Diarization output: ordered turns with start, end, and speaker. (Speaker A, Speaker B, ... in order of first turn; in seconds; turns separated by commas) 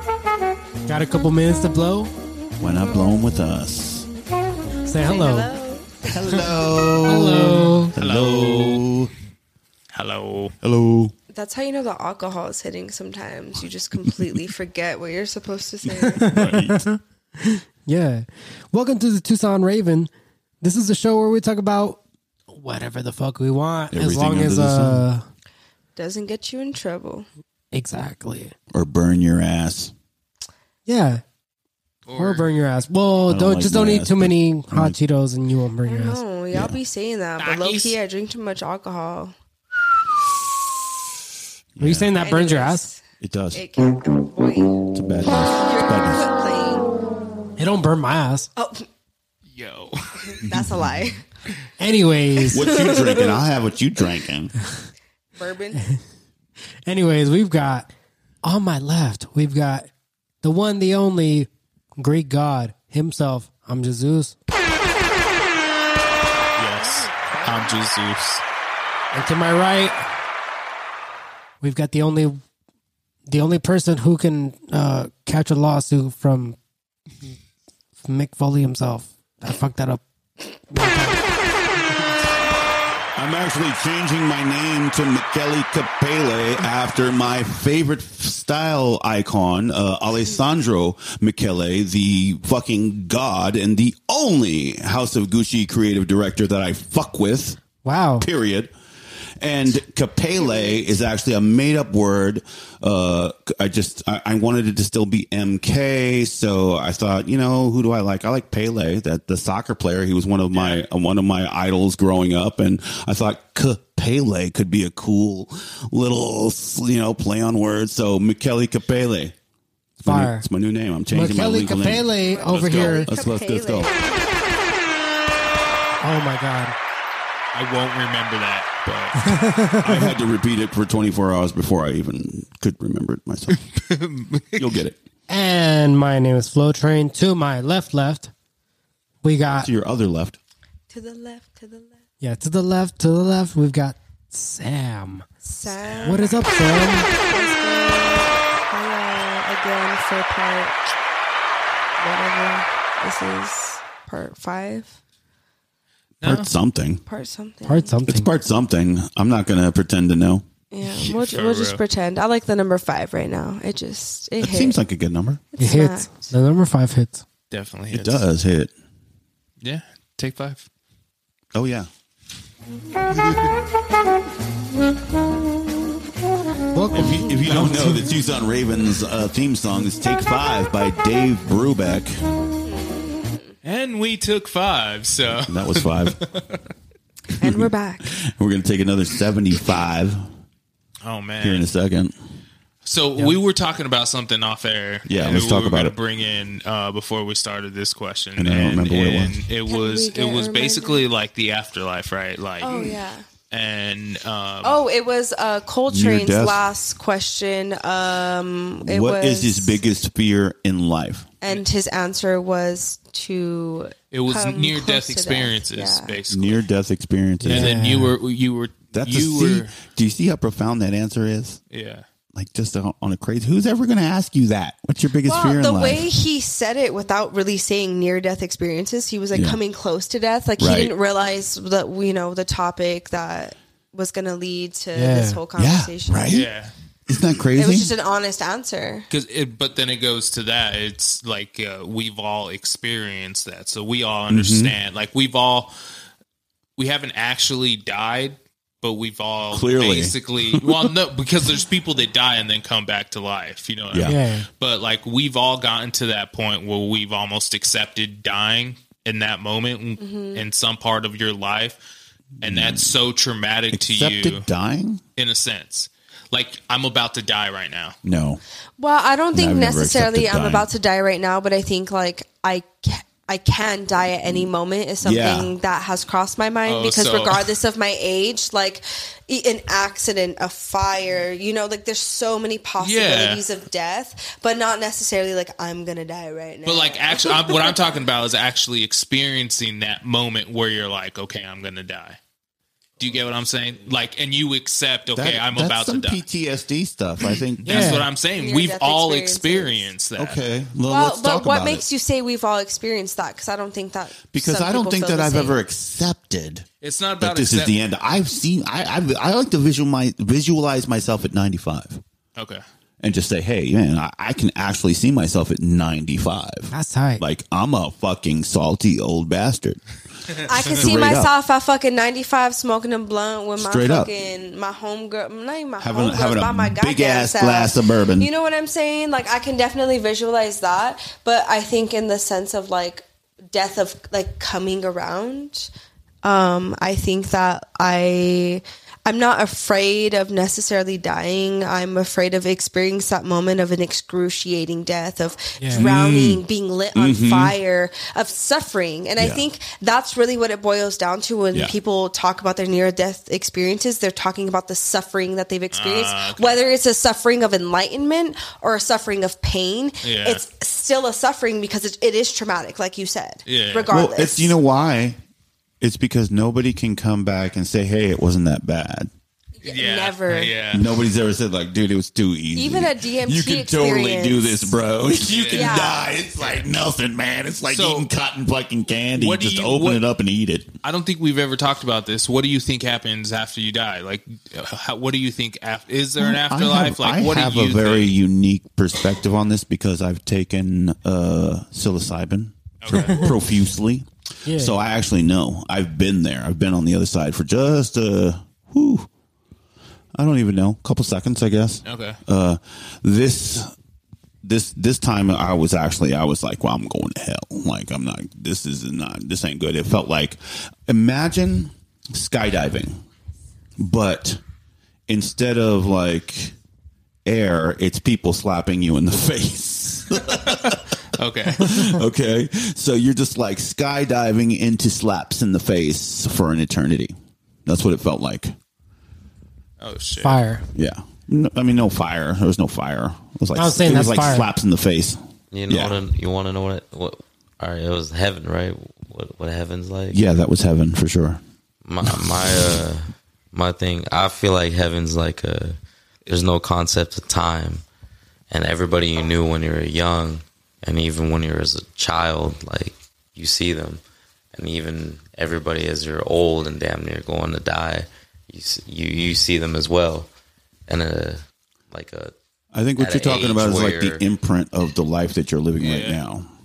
Speaker A: 0.9-2.1, Speaker B: 2.6-4.1, Speaker A: 4.8-5.5, Speaker C: 5.0-6.0, Speaker B: 6.0-9.1, Speaker A: 7.0-7.9, Speaker D: 8.0-8.8, Speaker D: 9.9-10.5, Speaker B: 10.6-11.1, Speaker C: 11.3-16.3, Speaker A: 16.2-20.1, Speaker B: 16.3-16.8, Speaker A: 20.6-22.0, Speaker A: 22.5-25.2, Speaker B: 23.9-25.1, Speaker C: 26.0-27.3, Speaker A: 27.7-28.5, Speaker B: 28.7-29.9, Speaker A: 30.9-31.2, Speaker D: 32.1-32.5, Speaker A: 32.1-36.2, Speaker B: 33.3-35.0, Speaker C: 35.8-39.3, Speaker D: 37.4-38.0, Speaker B: 41.8-42.2, Speaker A: 41.8-42.9, Speaker C: 42.1-43.0, Speaker B: 43.2-43.6, Speaker C: 43.5-44.9, Speaker B: 44.9-46.3, Speaker C: 45.5-46.9, Speaker A: 47.6-48.5, Speaker C: 48.6-48.9, Speaker D: 49.5-50.4, Speaker C: 50.2-51.2, Speaker A: 51.8-52.8, Speaker B: 52.5-54.5, Speaker C: 52.6-53.4, Speaker C: 55.4-55.8, Speaker A: 56.9-57.9, Speaker A: 58.4-59.9, Speaker A: 60.4-64.3, Speaker D: 66.6-68.4, Speaker C: 66.7-67.8, Speaker A: 69.1-70.1, Speaker A: 71.6-72.4, Speaker A: 73.3-76.6, Speaker A: 78.0-80.0, Speaker A: 80.7-81.3, Speaker B: 83.2-97.6, Speaker A: 97.8-98.3, Speaker B: 98.2-98.7, Speaker B: 99.4-119.3, Speaker C: 100.4-100.9, Speaker D: 110.5-110.8, Speaker B: 120.0-123.9, Speaker A: 120.0-120.5, Speaker A: 121.1-123.1, Speaker C: 122.1-124.3, Speaker A: 126.0-126.8, Speaker D: 127.5-129.2, Speaker A: 129.2-130.1, Speaker B: 129.8-133.6, Speaker D: 133.5-134.7, Speaker B: 134.6-135.0, Speaker A: 135.3-138.3, Speaker A: 139.2-139.7, Speaker B: 139.6-140.4, Speaker C: 140.9-142.0, Speaker A: 142.2-145.2, Speaker C: 145.4-146.3, Speaker D: 145.8-146.3, Speaker A: 146.1-147.1, Speaker C: 147.1-150.8, Speaker C: 152.0-154.9, Speaker D: 156.2-156.5, Speaker B: 156.2-157.0, Speaker C: 157.1-158.0, Speaker A: 157.7-158.3, Speaker B: 158.1-160.4, Speaker C: 160.7-164.8, Speaker D: 160.8-161.8, Speaker B: 164.4-165.4, Speaker C: 165.5-166.3, Speaker A: 165.6-167.2, Speaker D: 167.5-168.2, Speaker B: 167.9-168.7, Speaker D: 169.6-170.7, Speaker B: 171.5-171.9, Speaker A: 176.7-178.1, Speaker B: 176.9-182.1, Speaker C: 182.6-183.6, Speaker D: 183.6-186.6, Speaker B: 185.5-186.2, Speaker C: 187.4-188.1, Speaker B: 187.4-190.3, Speaker D: 191.0-191.7, Speaker B: 191.4-192.1, Speaker D: 192.8-203.0, Speaker B: 195.1-196.0, Speaker B: 198.4-199.4, Speaker C: 199.7-201.1, Speaker C: 202.6-203.3, Speaker D: 203.5-204.8, Speaker C: 204.6-209.8, Speaker B: 205.9-206.7, Speaker B: 208.8-211.3, Speaker C: 211.4-216.2, Speaker D: 214.1-216.7, Speaker B: 216.3-217.8, Speaker A: 217.4-218.2, Speaker D: 217.5-219.8, Speaker B: 218.9-221.6, Speaker D: 221.7-222.1, Speaker B: 222.3-226.1, Speaker C: 225.2-236.3, Speaker B: 229.3-229.6, Speaker B: 230.6-231.0, Speaker A: 234.9-235.4, Speaker B: 235.6-236.5, Speaker D: 236.3-236.7, Speaker B: 237.1-237.9, Speaker C: 237.6-239.1, Speaker D: 239.1-245.7, Speaker B: 244.3-244.8, Speaker D: 246.8-261.8, Speaker B: 249.5-250.9, Speaker B: 253.9-254.2, Speaker A: 254.0-254.5, Speaker C: 260.0-260.4, Speaker B: 262.4-263.0, Speaker D: 262.4-264.5, Speaker B: 263.7-265.0, Speaker D: 265.2-267.9, Speaker B: 268.0-268.4, Speaker C: 268.8-288.1, Speaker B: 269.3-270.7, Speaker B: 275.0-275.5, Speaker D: 276.6-277.6, Speaker D: 282.8-283.4, Speaker D: 286.6-292.2, Speaker D: 293.0-296.2, Speaker B: 295.1-298.1, Speaker D: 297.6-300.4, Speaker A: 297.6-298.1, Speaker C: 298.4-299.9, Speaker B: 300.2-301.8, Speaker C: 300.9-305.6, Speaker B: 304.3-306.7, Speaker D: 306.8-307.8, Speaker B: 307.2-312.0, Speaker D: 312.4-312.6, Speaker B: 313.0-319.8, Speaker A: 316.7-317.2, Speaker C: 320.5-335.7, Speaker B: 320.6-321.3, Speaker B: 323.6-324.1, Speaker B: 325.8-328.3, Speaker C: 336.2-364.6, Speaker A: 345.6-345.9, Speaker B: 345.7-346.4, Speaker B: 346.9-347.5, Speaker B: 349.2-349.5, Speaker D: 355.7-356.6, Speaker D: 360.0-360.4, Speaker D: 363.5-363.9, Speaker B: 363.9-365.2, Speaker B: 365.8-369.1, Speaker C: 369.6-370.6, Speaker D: 369.6-370.9, Speaker B: 370.7-380.7, Speaker C: 372.6-374.7, Speaker D: 375.3-375.8, Speaker C: 375.5-376.1, Speaker D: 377.7-378.1, Speaker D: 379.1-380.0, Speaker D: 380.8-388.2, Speaker B: 386.2-399.1, Speaker D: 392.8-393.3, Speaker A: 392.9-393.3, Speaker A: 394.4-394.8, Speaker B: 400.1-403.7, Speaker D: 401.9-402.2, Speaker B: 404.4-413.0, Speaker B: 413.8-414.4, Speaker B: 415.1-416.5, Speaker B: 417.2-420.8, Speaker D: 420.2-421.8, Speaker B: 421.6-427.1, Speaker B: 427.7-428.5, Speaker D: 429.8-430.4, Speaker A: 430.2-430.6, Speaker B: 430.7-436.0, Speaker A: 433.5-434.5, Speaker E: 435.5-440.2, Speaker B: 440.1-441.4, Speaker E: 441.9-447.8, Speaker B: 442.0-442.8, Speaker E: 448.5-454.0, Speaker E: 454.5-460.3, Speaker E: 460.9-462.3, Speaker B: 462.7-466.5, Speaker E: 463.0-464.3, Speaker D: 465.8-466.2